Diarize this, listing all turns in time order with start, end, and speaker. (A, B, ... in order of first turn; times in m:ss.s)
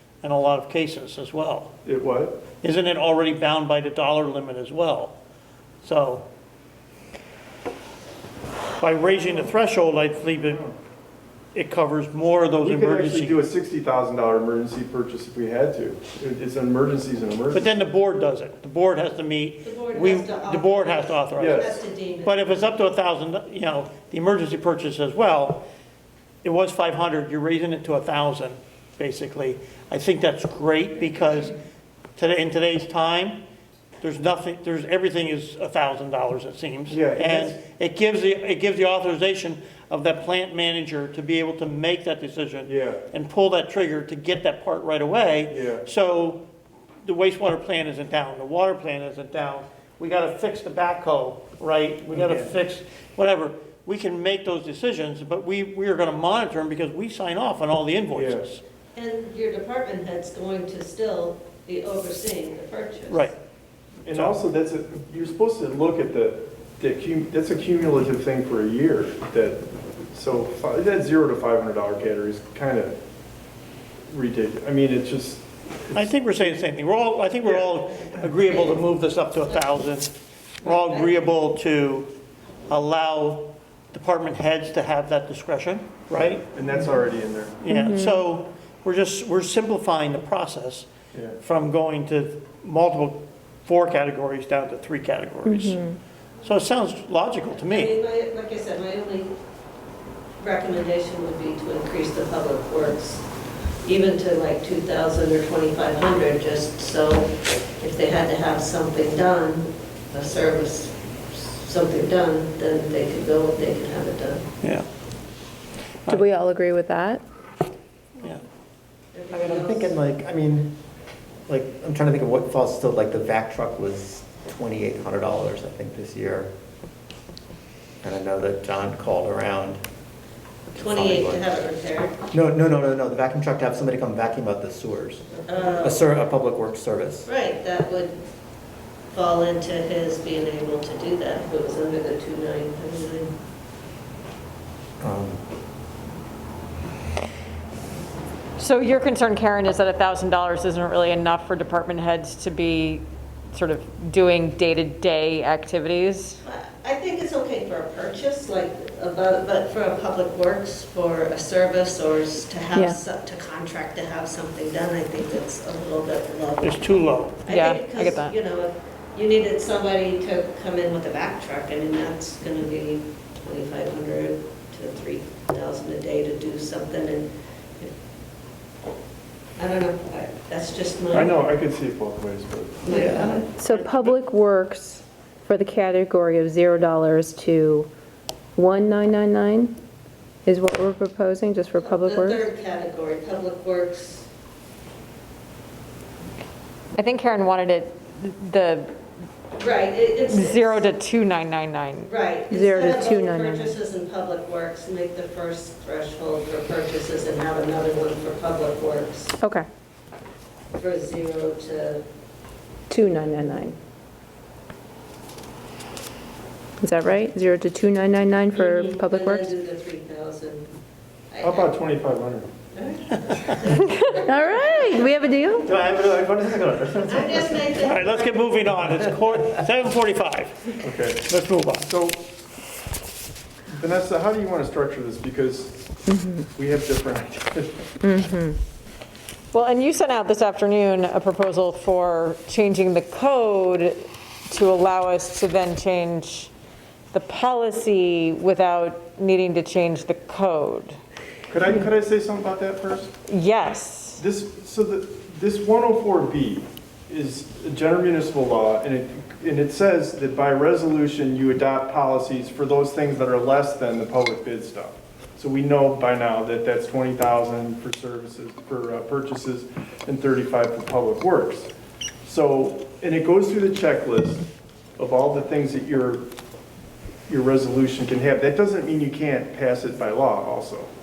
0:00.2-0:01.7 A
0:01.8-0:02.4 B
0:02.6-0:05.2 A
0:05.8-0:06.3 A
0:08.8-0:10.6 A
0:10.5-0:10.8 B
0:11.6-0:13.4 A
0:12.6-0:17.7 B
0:17.5-0:25.7 A
0:19.6-0:22.6 C
0:21.4-0:21.7 B
0:26.4-0:31.6 A
0:32.2-0:33.4 A
0:34.0-0:46.4 A
0:36.9-0:37.6 B
0:42.7-0:43.0 B
0:45.5-0:45.8 B
0:47.0-0:58.6 A
0:52.1-0:52.5 B
0:58.1-0:58.5 B
0:59.0-1:03.2 C
1:03.1-1:03.4 A
1:04.1-1:13.0 B
1:04.1-1:04.4 A
1:14.1-1:16.1 B
1:15.9-1:22.1 A
1:17.4-1:17.7 B
1:18.5-1:18.8 C
1:19.4-1:19.6 C
1:20.6-1:21.2 C
1:22.7-1:26.5 A
1:26.5-1:27.6 B
1:27.6-1:30.9 A
1:27.7-1:28.2 D
1:31.1-1:31.4 B
1:31.4-1:35.8 A
1:35.4-1:36.0 D
1:36.4-1:37.9 A
1:37.7-1:39.3 C
1:40.4-1:43.2 C
1:43.8-1:54.4 C
1:56.1-1:57.2 D
1:59.2-1:59.9 C
1:59.3-2:00.8 E
2:01.5-2:06.5 E
2:08.0-2:09.8 E
2:10.7-2:11.4 E
2:10.8-2:12.1 C
2:12.3-2:17.3 E
2:15.5-2:16.0 C
2:17.2-2:18.1 C
2:19.1-2:23.3 C
2:25.0-2:25.4 E
2:28.6-2:36.4 F
2:36.4-2:46.8 C
2:42.7-2:43.0 D
2:46.6-2:47.4 A
2:47.4-2:57.3 C
2:47.5-2:48.3 F
2:59.6-3:01.3 C
3:01.1-3:03.0 B
3:02.9-3:03.4 E
3:03.0-3:03.4 C
3:03.5-3:07.9 D
3:03.6-3:04.2 A
3:08.6-3:09.8 D
3:10.4-3:12.5 D
3:11.8-3:14.3 C
3:17.0-3:18.9 F
3:19.6-3:20.7 C
3:20.3-3:22.1 F
3:22.1-3:29.3 C
3:22.5-3:23.8 D
3:30.8-3:32.0 C
3:32.9-3:33.8 D
3:36.8-3:39.5 D
3:38.5-3:40.6 C
3:41.3-3:41.7 C
3:41.4-3:42.5 B
3:42.7-3:45.0 C
3:44.2-3:45.7 D
3:45.6-3:47.9 E
3:47.1-3:48.3 C
3:47.8-3:51.9 A
3:50.8-3:52.2 B
3:53.7-3:55.9 B
3:56.1-3:56.5 D
3:56.5-3:57.9 B
3:58.0-3:58.6 D
3:59.5-4:06.5 F
4:07.1-4:11.0 F
4:11.5-4:13.1 B
4:13.3-4:14.2 F
4:14.2-4:31.7 B
4:32.2-4:36.2 B
4:37.3-4:40.9 B